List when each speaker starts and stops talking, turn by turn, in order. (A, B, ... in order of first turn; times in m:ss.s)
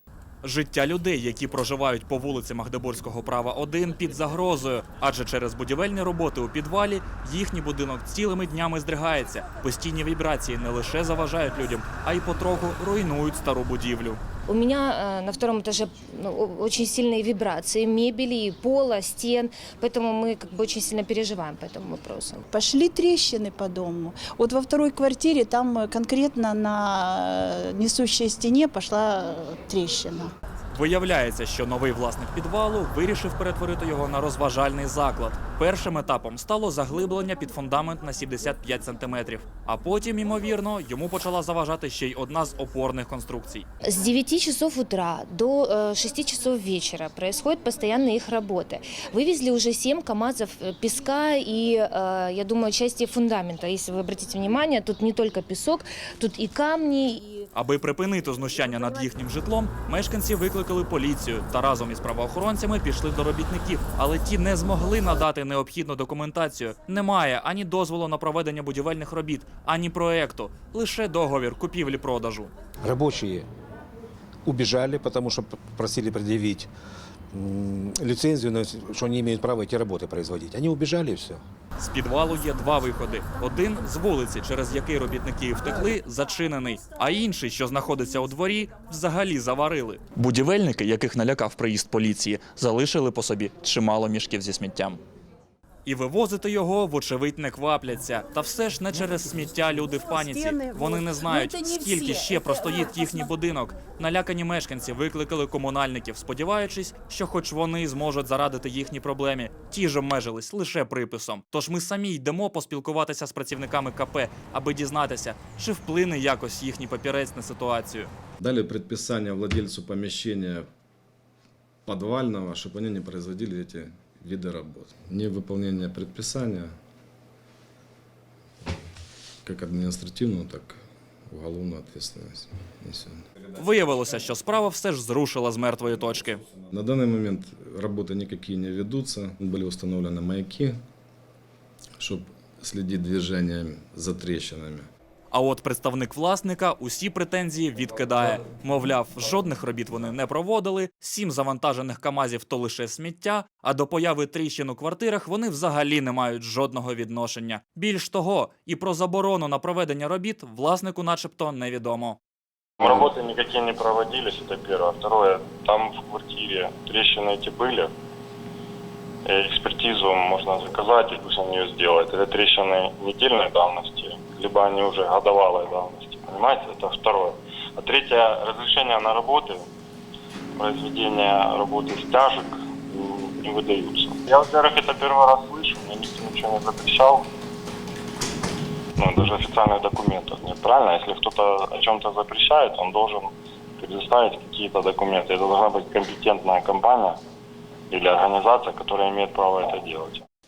0:00.4-0:14.2 A
0:14.5-0:22.4 B
0:22.5-0:30.3 C
0:30.7-0:43.7 A
0:43.8-0:57.3 B
0:57.6-1:12.5 A
1:12.8-1:13.5 D
1:14.4-1:16.7 D
1:17.3-1:21.4 D
1:21.8-1:35.0 A
1:35.9-1:58.1 A
1:40.2-1:42.4 C
1:58.4-2:00.7 E
2:01.9-2:06.7 E
2:09.4-2:13.2 E
2:13.6-2:16.4 A
2:16.7-2:20.8 E
2:22.0-2:24.9 E
2:25.3-2:42.2 A
2:42.8-2:47.9 F
2:49.3-2:59.6 F
3:00.6-3:07.2 F
3:09.0-3:13.3 F
3:13.8-3:17.2 F
3:17.9-3:20.2 F